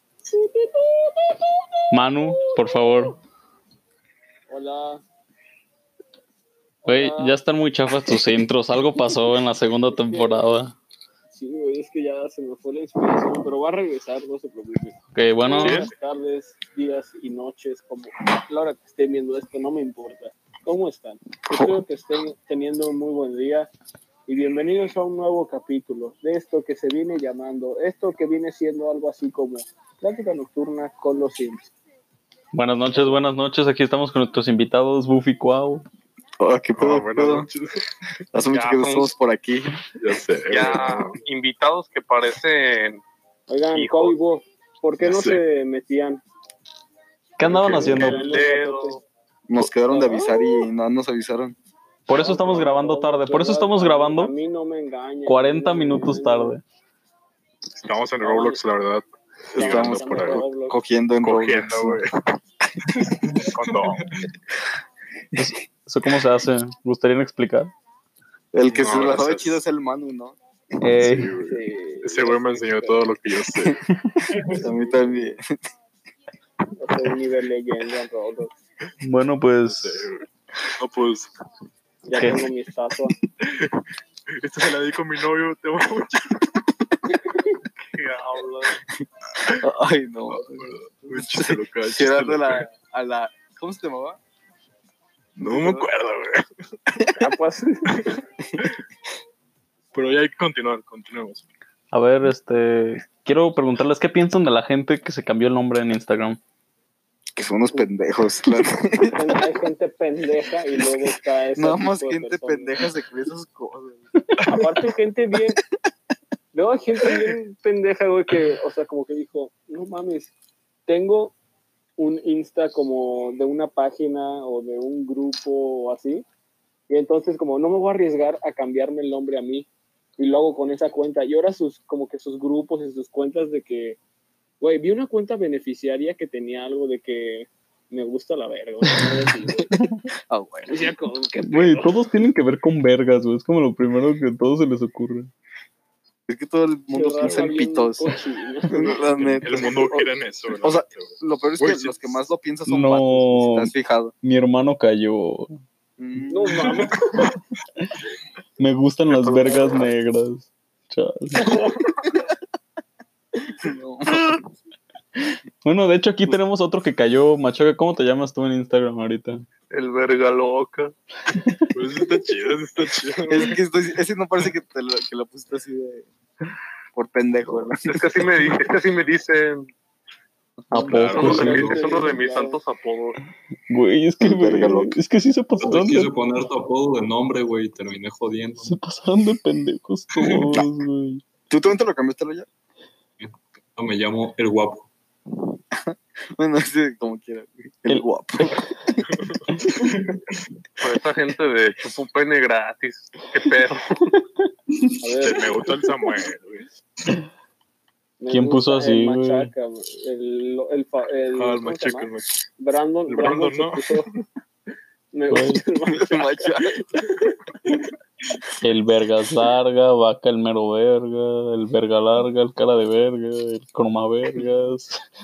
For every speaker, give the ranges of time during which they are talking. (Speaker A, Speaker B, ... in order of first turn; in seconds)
Speaker A: 0.3-3.1, 4.5-5.0, 6.8-7.4, 9.9-10.5, 11.3-23.7, 24.3-31.7, 43.5-46.2, 47.5-49.0, 49.9-50.7, 52.1-56.6, 58.2-58.6, 59.5-60.8, 71.4-73.1, 76.8-78.5, 82.1-83.1, 97.1-98.0, 109.1-112.7, 114.5-115.6, 116.5-120.3, 120.9-121.3, 122.0-126.2, 126.9-129.7, 130.2-134.0, 134.6-139.7, 140.7-141.9, 146.9-150.1, 156.3-157.0, 181.1-182.6, 205.0-205.5, 208.2-214.1, 215.1-216.6
Speaker B: 1.9-3.1, 6.8-10.8, 15.1-15.9, 32.5-35.9, 47.4-48.4, 52.1-54.3, 55.2-56.6, 65.3-67.7, 70.8-71.3, 73.8-74.3, 79.0-80.1, 82.2-82.4, 101.9-106.4, 141.4-145.3, 152.7-153.7, 154.2-155.6, 158.6-161.6, 165.6-169.4, 171.3-171.7, 180.7-181.8, 183.7-186.1, 188.6-191.2, 197.9-198.7, 208.3-209.5, 215.3-215.6, 218.6-225.0
Speaker C: 15.6-15.9, 36.8-37.8, 40.0-41.1, 45.0-45.4, 57.8-60.4, 61.2-62.1, 63.5-64.1, 68.7-69.6, 70.9-73.8, 79.6-81.3, 83.4-83.8, 84.4-86.6, 90.3-92.7, 95.4-96.5, 97.9-98.6, 99.9-101.5, 114.3-114.8, 147.2-147.5, 149.1-152.2, 159.1-159.8, 171.7-173.6, 180.8-181.4, 199.0-199.4, 205.2-206.7, 211.3-212.4, 213.1-214.2
Speaker D: 21.5-21.8, 36.4-37.5, 38.3-39.7, 49.5-51.5, 59.5-62.0, 68.5-70.3, 74.4-75.5, 89.5-94.2, 95.4-95.9, 98.4-98.7, 107.3-109.4, 111.5-114.0, 140.3-140.9, 146.3-148.1, 148.7-149.9, 150.6-154.1, 156.0-156.9, 163.6-164.4, 173.3-176.1, 176.9-178.1, 184.2-184.9, 191.5-192.5, 195.7-198.6, 215.9-216.9
Speaker E: 38.5-39.1, 40.5-43.0, 43.7-44.2, 47.7-49.0, 87.9-88.8, 169.7-170.9, 177.8-179.7, 181.0-183.2, 200.8-204.2
Speaker F: 63.0-64.3, 180.8-181.8, 185.6-188.8, 190.2-190.6, 193.2-194.9, 199.8-200.4